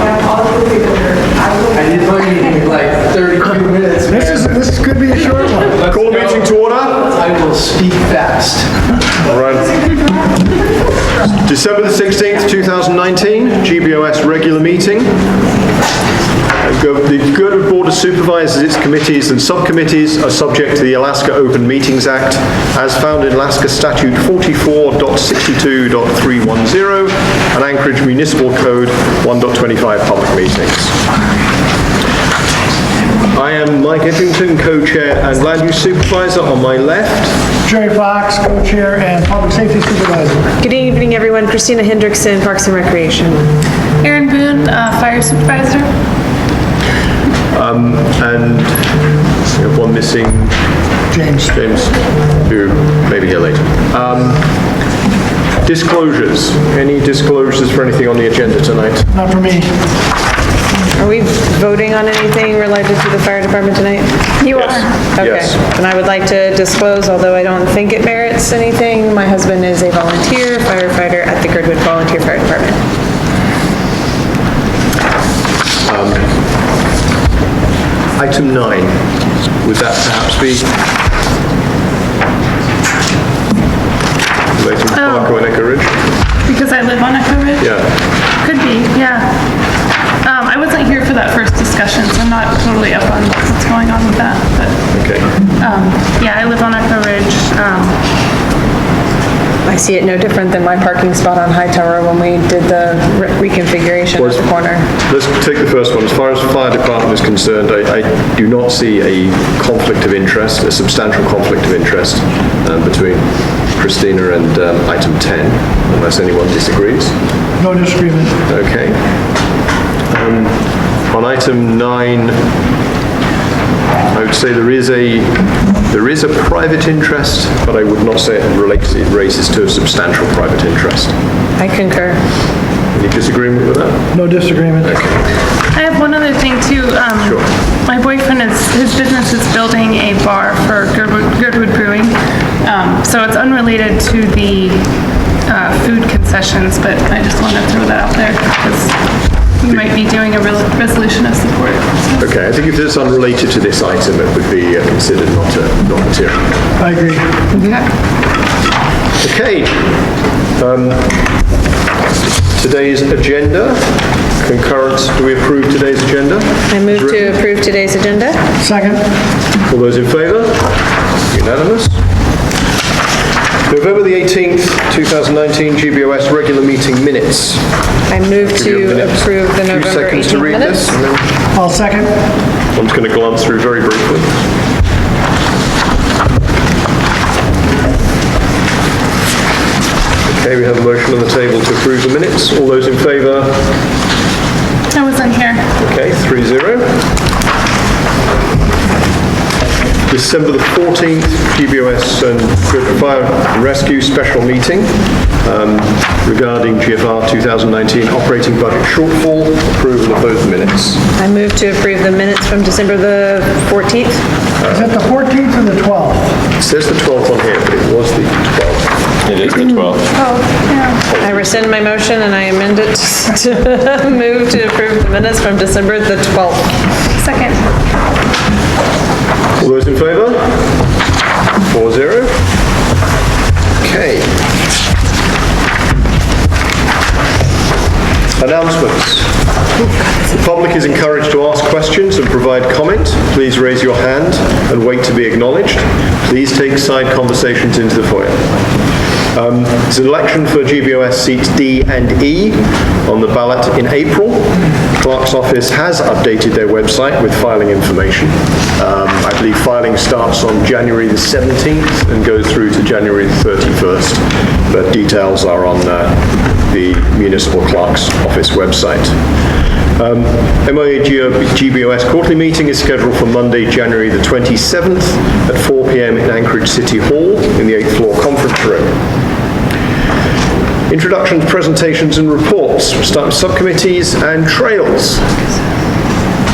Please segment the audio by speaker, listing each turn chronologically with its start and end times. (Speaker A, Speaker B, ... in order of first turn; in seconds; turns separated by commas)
Speaker A: 1.7-4.6, Speaker B: 4.1-5.8, Speaker A: 5.6-8.8, Speaker C: 5.9-7.1, Speaker C: 9.2-10.2, Speaker C: 11.4-15.2, Speaker C: 16.6-30.9, Speaker C: 33.3-37.4, Speaker B: 37.6-40.4, Speaker D: 40.6-43.5, Speaker E: 44.0-45.9, Speaker C: 47.5-50.6, Speaker B: 51.1-51.6, Speaker C: 51.5-54.5, Speaker C: 55.6-59.1, Speaker B: 59.1-59.7, Speaker D: 61.0-64.2, Speaker E: 64.4-65.0, Speaker C: 64.5-65.6, Speaker D: 65.1-72.8, Speaker C: 75.8-76.3, Speaker C: 78.1-79.0, Speaker C: 79.6-80.7, Speaker C: 84.5-86.0, Speaker E: 84.9-85.3, Speaker E: 86.4-89.5, Speaker C: 87.6-87.9, Speaker E: 90.2-94.8, Speaker C: 94.9-95.3, Speaker E: 95.6-98.0, Speaker D: 99.6-104.9, Speaker C: 104.1-117.2, Speaker B: 117.6-118.4, Speaker C: 118.5-119.0, Speaker C: 120.1-122.4, Speaker C: 124.1-131.1, Speaker D: 131.6-132.2, Speaker C: 132.9-134.1, Speaker B: 134.1-135.0, Speaker C: 134.8-135.1, Speaker E: 135.7-149.0, Speaker C: 137.2-137.4, Speaker E: 149.6-152.2, Speaker C: 152.2-156.5, Speaker B: 156.8-157.4, Speaker D: 157.5-157.8, Speaker E: 157.5-157.9, Speaker C: 159.2-159.9, Speaker C: 160.6-161.2, Speaker C: 162.5-167.3, Speaker D: 166.7-168.4, Speaker B: 168.6-169.1, Speaker C: 169.7-172.0, Speaker C: 173.7-177.6, Speaker D: 178.1-180.9, Speaker C: 178.4-181.3, Speaker B: 181.5-182.1, Speaker C: 182.7-184.4, Speaker C: 190.2-193.7, Speaker E: 194.9-195.7, Speaker C: 195.8-197.0, Speaker C: 200.1-211.0, Speaker D: 211.2-214.2, Speaker C: 214.6-214.9, Speaker B: 214.7-216.4, Speaker C: 216.6-220.1, Speaker E: 220.1-221.0, Speaker C: 221.1-221.7, Speaker D: 221.2-226.7, Speaker E: 227.2-227.6, Speaker C: 229.6-230.8, Speaker C: 231.7-232.4, Speaker C: 233.8-234.4, Speaker C: 238.4-239.3, Speaker C: 240.2-248.6, Speaker C: 249.3-269.2, Speaker C: 269.9-278.9, Speaker C: 280.9-285.3